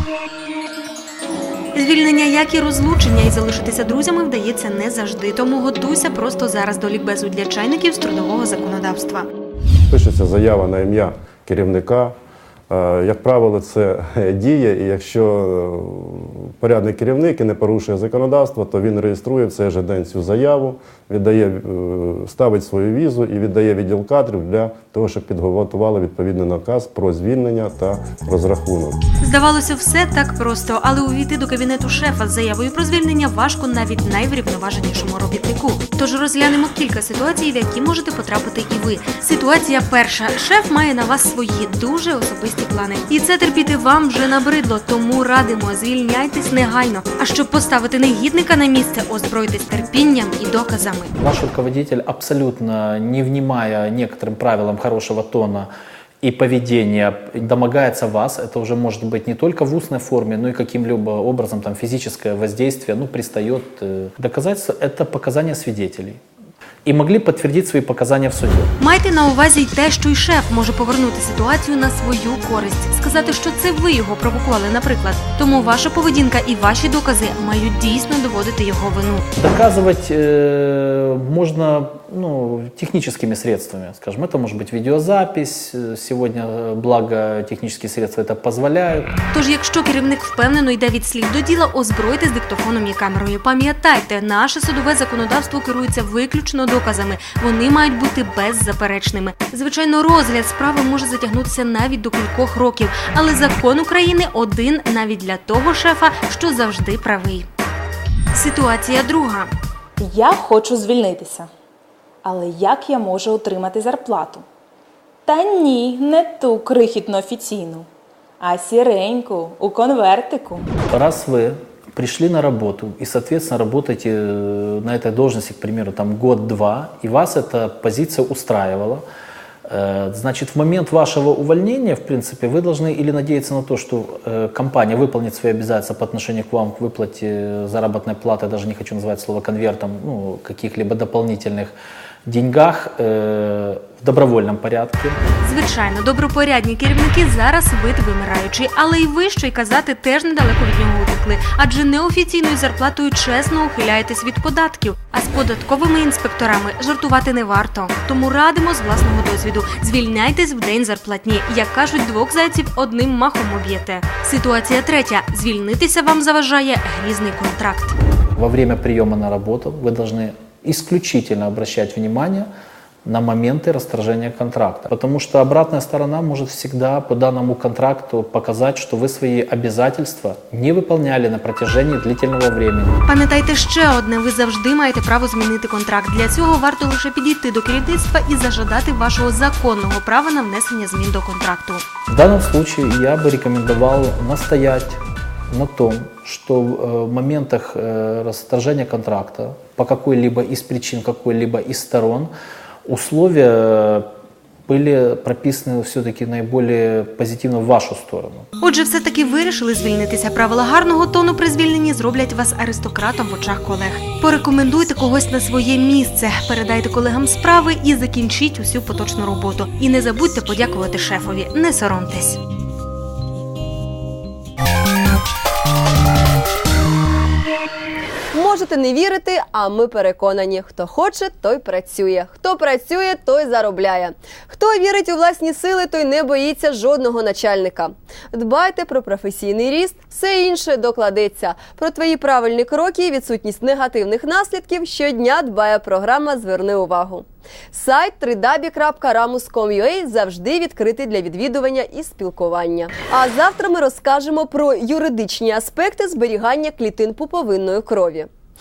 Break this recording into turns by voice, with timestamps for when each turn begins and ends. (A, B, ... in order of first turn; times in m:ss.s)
0:01.7-0:09.3 A
0:09.9-0:12.1 B
0:12.7-0:29.0 B
0:29.2-0:51.1 A
0:51.2-0:55.7 C
0:56.2-1:06.2 C
1:06.8-1:08.7 C
1:08.8-1:19.2 A
1:19.4-1:29.1 C
1:29.3-1:47.5 A
1:48.3-1:49.5 A
1:50.0-1:51.5 D
1:52.2-1:54.4 D
1:55.2-1:57.9 D
1:58.4-2:00.6 D
2:00.9-2:09.0 C
2:09.6-2:25.2 C
2:25.4-2:48.0 A
2:48.3-2:52.5 C
2:53.0-3:03.0 C
3:03.0-3:11.8 A
3:12.1-3:22.3 C
3:22.8-3:24.1 C
3:24.7-3:28.5 C
3:28.6-3:42.4 A
3:48.3-4:18.3 E